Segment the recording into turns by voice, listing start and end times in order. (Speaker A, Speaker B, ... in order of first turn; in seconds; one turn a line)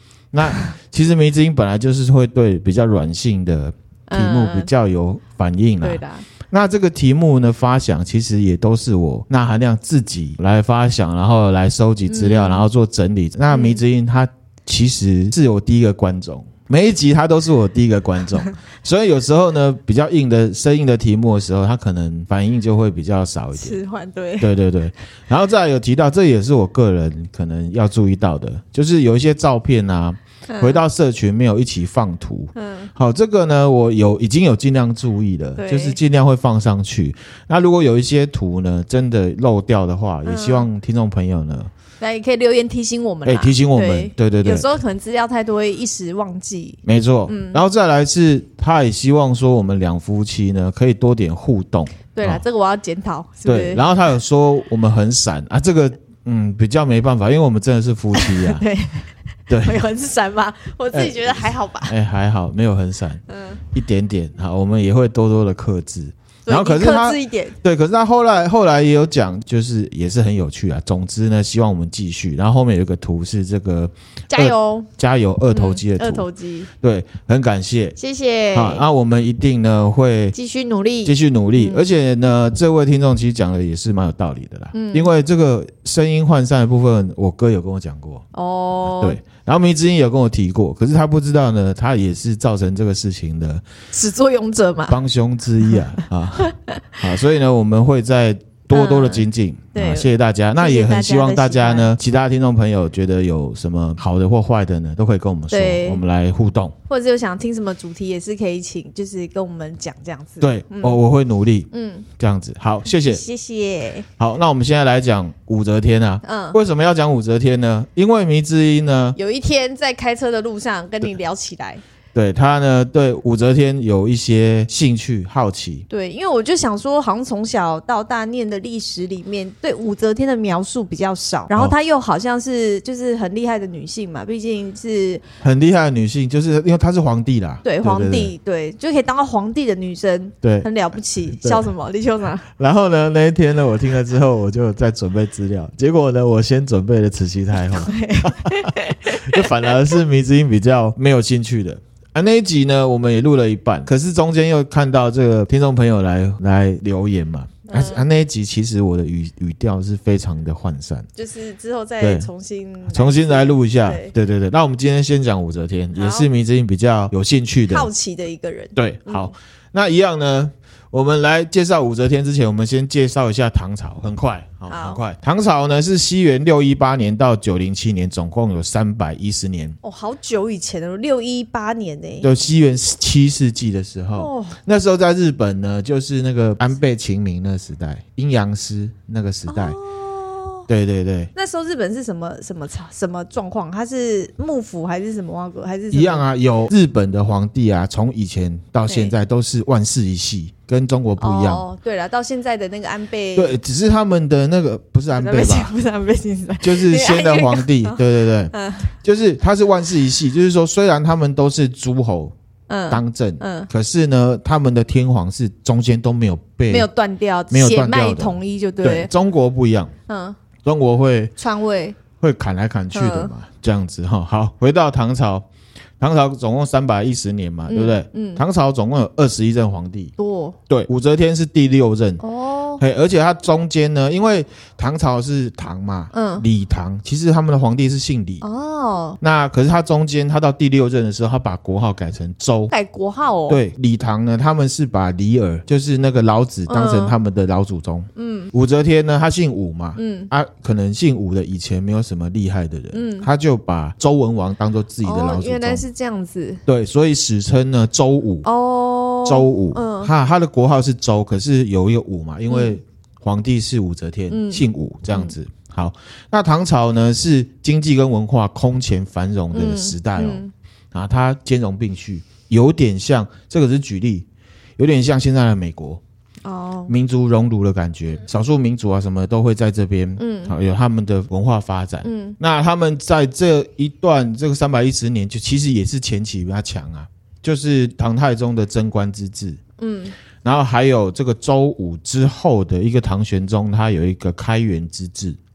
Speaker A: 0.3-23.8
Speaker B: 4.1-4.7
Speaker B: 5.8-6.3
Speaker B: 12.1-12.7
Speaker B: 13.5-13.8
Speaker B: 23.5-24.6
Speaker A: 24.4-41.7
Speaker B: 30.5-30.8
Speaker B: 32.5-32.9
Speaker B: 35.6-36.0
Speaker B: 40.2-40.7
Speaker B: 42.0-47.6
Speaker A: 43.2-44.7
Speaker A: 46.9-52.4
Speaker B: 52.1-53.8
Speaker A: 53.5-58.6
Speaker B: 58.1-61.9
Speaker A: 59.5-59.8
Speaker A: 60.9-76.3
Speaker B: 63.3-63.6
Speaker B: 66.5-67.6
Speaker B: 74.3-74.9
Speaker B: 75.5-76.7
Speaker A: 76.8-78.0
Speaker B: 78.0-78.8
Speaker A: 78.5-80.3
Speaker B: 80.3-81.9
Speaker A: 81.0-88.2
Speaker B: 84.7-85.1
Speaker B: 88.3-89.2
Speaker A: 88.9-93.6
Speaker B: 93.9-95.0
Speaker A: 94.9-106.8
Speaker B: 96.4-97.0
Speaker B: 98.7-101.9
Speaker B: 105.5-106.0
Speaker B: 106.9-111.0
Speaker A: 110.4-113.2
Speaker B: 111.7-112.1
Speaker B: 113.0-114.1
Speaker A: 114.2-119.2
Speaker B: 116.2-116.6
Speaker B: 119.2-121.8
Speaker A: 122.2-125.9
Speaker B: 125.9-135.3
Speaker A: 135.4-138.3
Speaker B: 137.6-142.4
Speaker A: 140.4-140.7
Speaker A: 141.2-141.7
Speaker A: 142.5-161.1
Speaker B: 147.6-149.7
Speaker B: 157.7-158.1
Speaker B: 161.2-164.1
Speaker A: 162.0-162.3
Speaker A: 162.9-167.9
Speaker B: 165.9-166.3
Speaker B: 167.7-169.3
Speaker A: 168.8-179.8
Speaker B: 174.7-175.0
Speaker B: 179.8-182.3
Speaker A: 182.2-189.8
Speaker B: 184.2-184.6
Speaker B: 189.5-190.7
Speaker A: 190.7-191.3
Speaker B: 191.3-196.2
Speaker A: 195.9-201.7
Speaker B: 198.9-199.1
Speaker B: 201.2-203.6
Speaker A: 203.4-205.7
Speaker B: 205.2-208.9
Speaker A: 206.6-212.3
Speaker B: 212.7-213.7
Speaker A: 212.9-216.9
Speaker B: 216.7-219.1
Speaker A: 217.5-219.9
Speaker B: 220.1-220.4
Speaker A: 220.7-221.3
Speaker B: 221.4-222.0
Speaker A: 222.2-225.5
Speaker B: 222.9-223.3
Speaker A: 226.0-230.1
Speaker B: 227.7-228.4
Speaker B: 230.2-230.6
Speaker A: 230.7-232.2
Speaker B: 232.2-232.8
Speaker A: 232.8-238.4
Speaker B: 236.1-236.5
Speaker B: 238.4-239.2
Speaker A: 239.2-242.7
Speaker B: 242.7-243.6
Speaker A: 243.5-255.8
Speaker B: 246.7-247.2
Speaker B: 248.2-248.5
Speaker B: 250.0-250.3
Speaker B: 252.9-253.3
Speaker B: 255.0-256.6
Speaker A: 256.7-258.5
Speaker B: 258.4-260.1
Speaker A: 259.2-270.4
Speaker B: 262.5-262.8
Speaker B: 264.3-265.4
Speaker B: 269.5-270.5
Speaker A: 270.9-274.3
Speaker A: 274.8-276.0
Speaker B: 276.4-276.9
Speaker A: 276.9-289.6
Speaker B: 280.2-280.5
Speaker B: 282.0-282.4
Speaker B: 289.8-290.2
Speaker A: 290.4-295.4